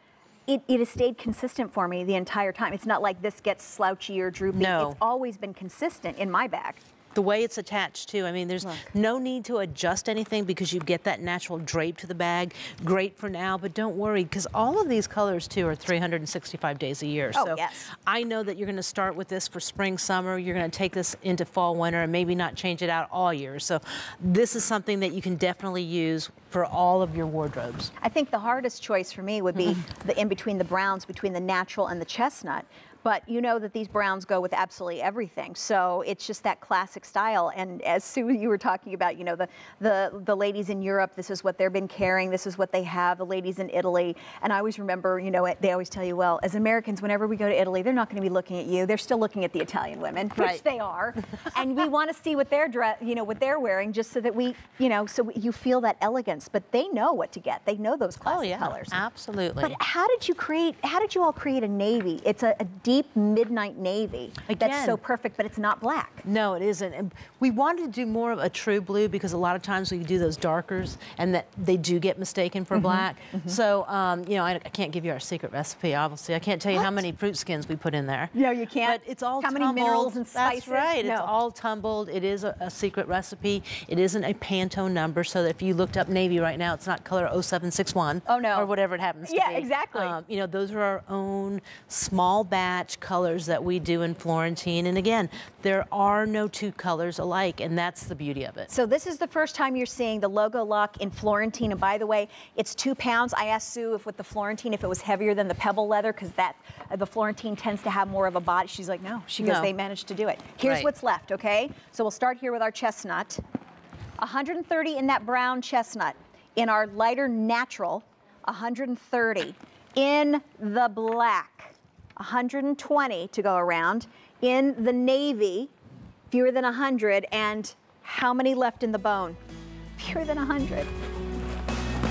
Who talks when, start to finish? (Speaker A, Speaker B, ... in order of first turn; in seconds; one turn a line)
Speaker A: 0.5-6.8
Speaker B: 4.6-5.0
Speaker B: 7.1-27.9
Speaker A: 8.6-8.9
Speaker A: 17.3-17.9
Speaker A: 28.0-59.0
Speaker B: 50.4-50.6
Speaker B: 58.2-59.8
Speaker A: 59.6-66.2
Speaker B: 64.5-65.0
Speaker B: 66.2-98.7
Speaker A: 72.7-73.6
Speaker A: 76.7-77.0
Speaker A: 78.3-81.3
Speaker A: 88.3-88.7
Speaker A: 89.2-90.2
Speaker A: 98.7-113.4
Speaker B: 109.4-109.7
Speaker B: 110.6-110.9
Speaker A: 114.2-125.7
Speaker A: 126.3-129.4
Speaker A: 130.0-130.9